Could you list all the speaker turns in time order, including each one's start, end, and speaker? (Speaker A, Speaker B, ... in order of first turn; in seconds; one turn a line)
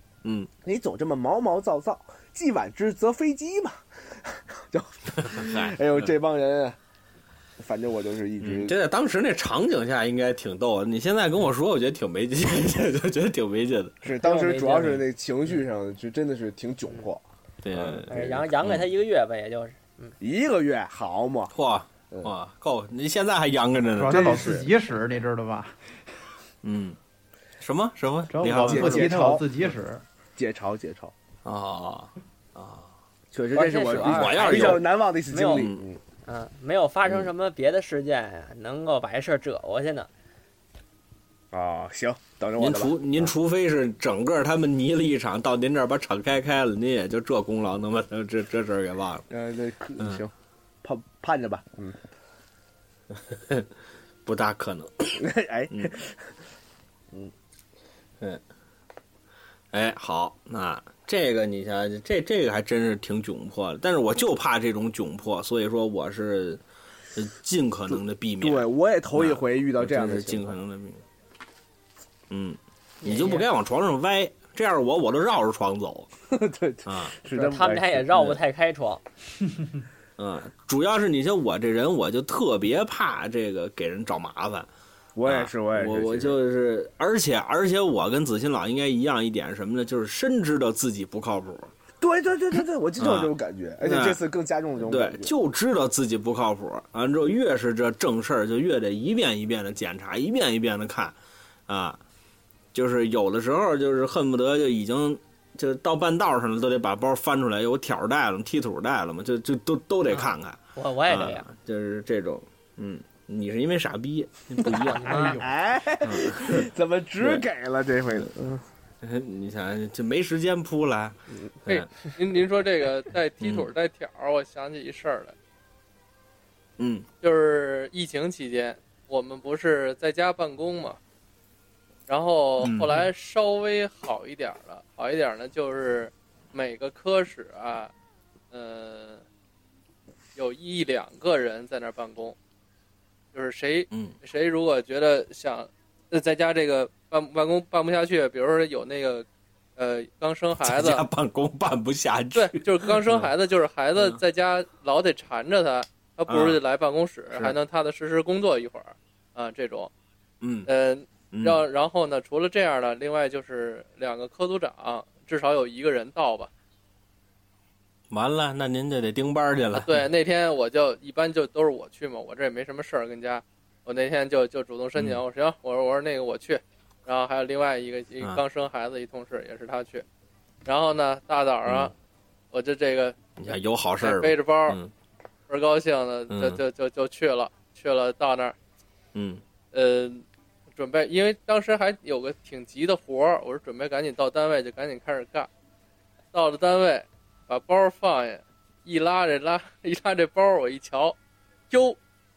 Speaker A: 0.2-0.5
Speaker B: 0.6-6.8
Speaker A: 5.2-5.8
Speaker B: 7.6-8.8
Speaker A: 8.4-14.0
Speaker B: 14.0-17.2
Speaker C: 14.1-15.1
Speaker A: 17.6-18.9
Speaker B: 17.7-18.2
Speaker C: 18.1-20.1
Speaker B: 20.2-21.5
Speaker A: 21.5-24.4
Speaker D: 23.9-25.8
Speaker B: 24.1-24.7
Speaker A: 26.6-27.0
Speaker A: 27.6-29.1
Speaker D: 28.3-30.0
Speaker B: 28.5-29.5
Speaker B: 30.4-31.1
Speaker A: 31.4-32.9
Speaker B: 33.3-36.0
Speaker C: 33.5-35.7
Speaker A: 34.0-34.8
Speaker A: 35.5-35.8
Speaker C: 36.2-40.1
Speaker B: 41.5-43.3
Speaker A: 42.6-49.2
Speaker B: 49.3-50.3
Speaker B: 50.8-52.0
Speaker A: 53.1-53.7
Speaker A: 54.2-55.9
Speaker B: 55.2-56.2
Speaker A: 59.7-66.6
Speaker A: 67.1-71.0
Speaker B: 68.4-70.6
Speaker A: 72.3-76.1
Speaker C: 73.0-73.5
Speaker B: 76.3-78.1
Speaker A: 76.9-77.2
Speaker C: 77.3-79.0
Speaker A: 80.2-84.7
Speaker B: 85.2-86.4
Speaker A: 85.2-91.7
Speaker B: 92.0-95.3
Speaker A: 93.0-94.2
Speaker A: 94.8-101.2
Speaker A: 101.7-102.0
Speaker A: 102.7-115.2
Speaker C: 110.1-111.5
Speaker C: 114.6-115.4
Speaker D: 115.0-115.4
Speaker B: 115.2-118.6
Speaker A: 116.0-116.7
Speaker A: 119.0-121.9
Speaker E: 121.7-125.3
Speaker A: 123.4-123.7
Speaker A: 126.8-127.1
Speaker E: 127.2-131.0
Speaker E: 132.1-137.9
Speaker A: 132.6-133.1
Speaker E: 138.5-139.2
Speaker E: 140.3-142.3
Speaker E: 143.3-149.2
Speaker E: 149.8-151.1
Speaker A: 150.6-153.3
Speaker E: 152.3-159.9
Speaker A: 153.9-154.2
Speaker A: 156.3-156.6
Speaker A: 160.4-160.7
Speaker E: 160.7-166.5
Speaker A: 161.3-161.6
Speaker A: 168.1-170.1
Speaker E: 169.7-180.1
Speaker A: 174.9-175.2
Speaker E: 180.6-181.9
Speaker A: 181.7-181.9
Speaker E: 182.5-183.2
Speaker A: 183.4-184.9
Speaker E: 184.0-184.8
Speaker E: 185.5-188.6
Speaker A: 186.3-186.6
Speaker A: 189.1-189.4
Speaker E: 189.7-195.5
Speaker E: 196.3-201.2
Speaker E: 201.7-202.0